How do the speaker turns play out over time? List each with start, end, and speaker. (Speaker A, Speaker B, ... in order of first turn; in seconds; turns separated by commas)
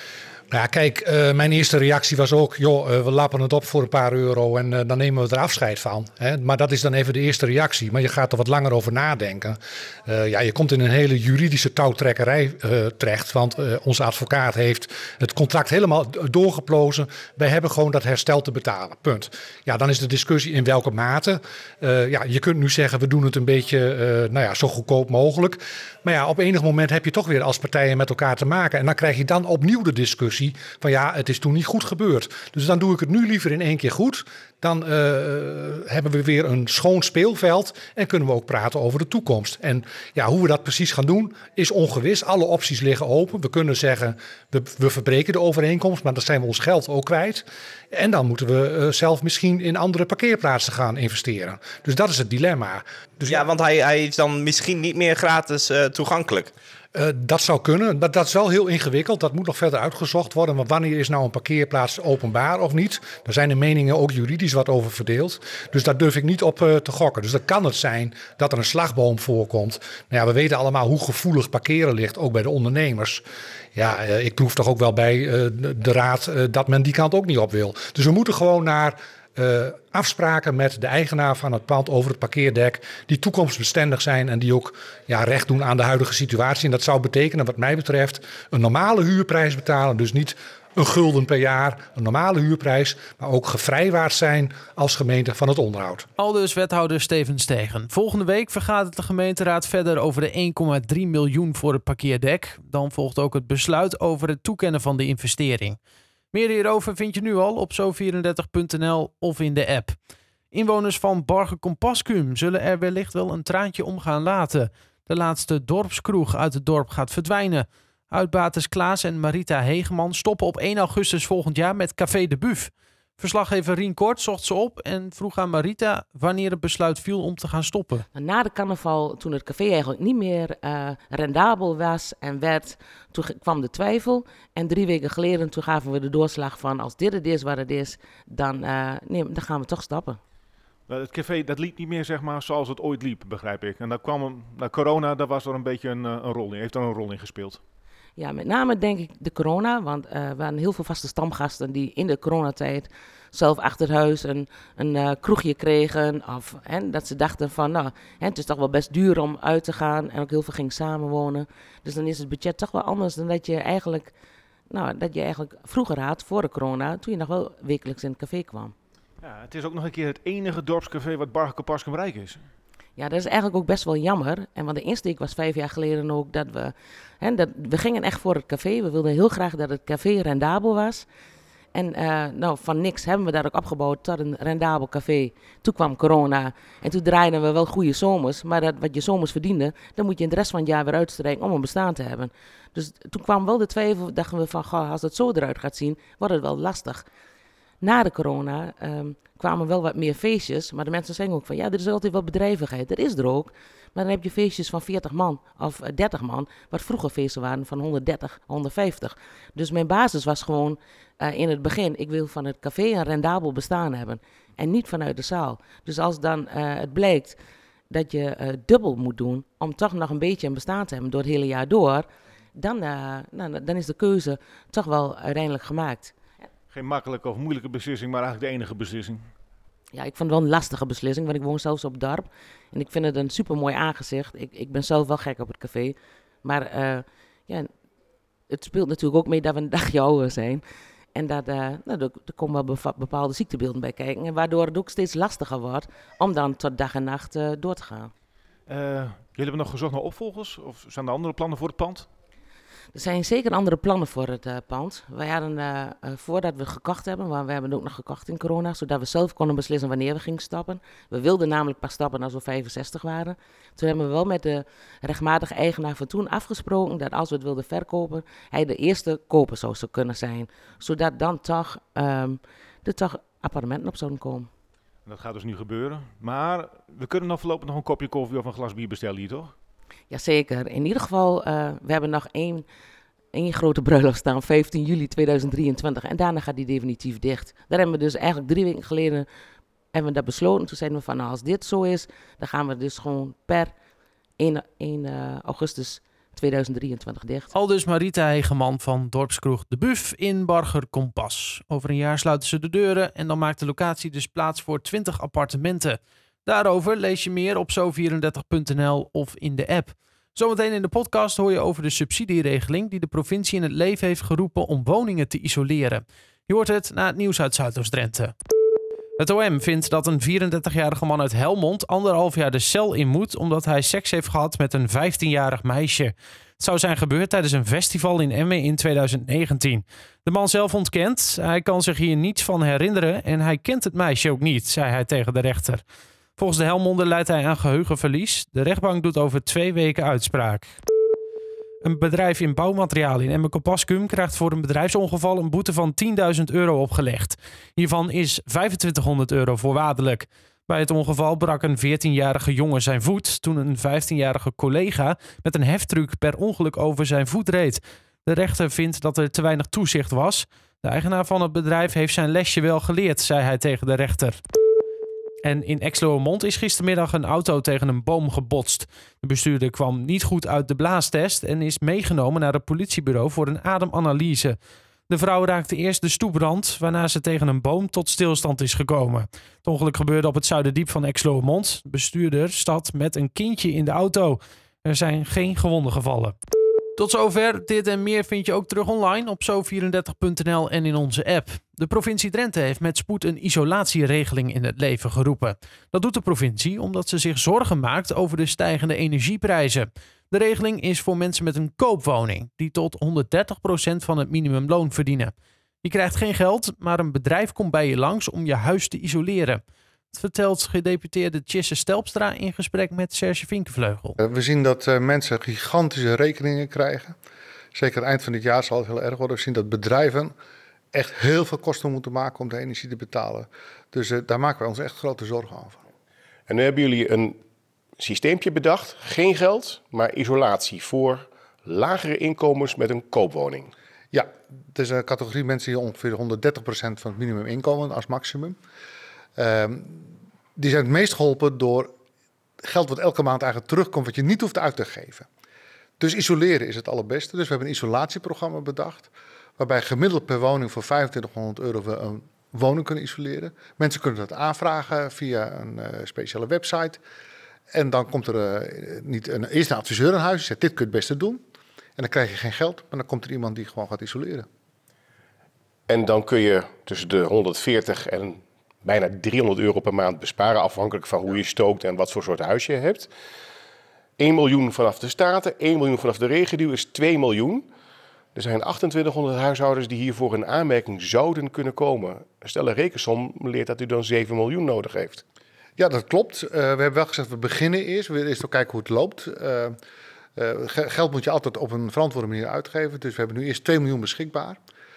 Speaker A: 0.5-53.4, Speaker B: 53.3-56.5, Speaker A: 56.9-73.2, Speaker A: 73.7-96.0, Speaker C: 96.2-105.8, Speaker C: 106.3-110.0, Speaker C: 110.5-128.1, Speaker D: 128.1-140.2, Speaker E: 140.9-147.6, Speaker D: 148.2-164.1, Speaker D: 164.7-168.7, Speaker E: 169.2-172.5, Speaker D: 172.9-181.1, Speaker D: 181.7-197.1, Speaker D: 197.8-217.4, Speaker D: 217.9-226.1, Speaker E: 226.7-229.3, Speaker D: 229.9-237.7, Speaker D: 238.5-248.1, Speaker E: 248.7-252.1, Speaker D: 252.9-274.5, Speaker E: 275.0-279.5, Speaker D: 280.1-282.7, Speaker D: 283.3-289.3, Speaker D: 289.9-293.7, Speaker D: 294.4-297.5, Speaker C: 297.5-318.3, Speaker C: 319.2-335.8, Speaker C: 336.4-340.8, Speaker C: 341.8-364.4, Speaker C: 365.4-374.6, Speaker C: 375.1-386.4, Speaker C: 386.9-414.1, Speaker F: 414.2-417.1, Speaker F: 417.7-420.3, Speaker F: 420.9-425.8, Speaker G: 426.5-427.4, Speaker G: 428.0-433.7, Speaker F: 434.1-438.6, Speaker F: 439.4-440.0, Speaker F: 440.6-441.9, Speaker F: 442.6-445.2, Speaker F: 446.0-457.0, Speaker F: 457.7-461.4, Speaker F: 462.0-464.4, Speaker G: 465.9-473.1, Speaker G: 474.2-477.6, Speaker G: 478.3-485.2, Speaker F: 485.8-489.8, Speaker F: 490.4-494.6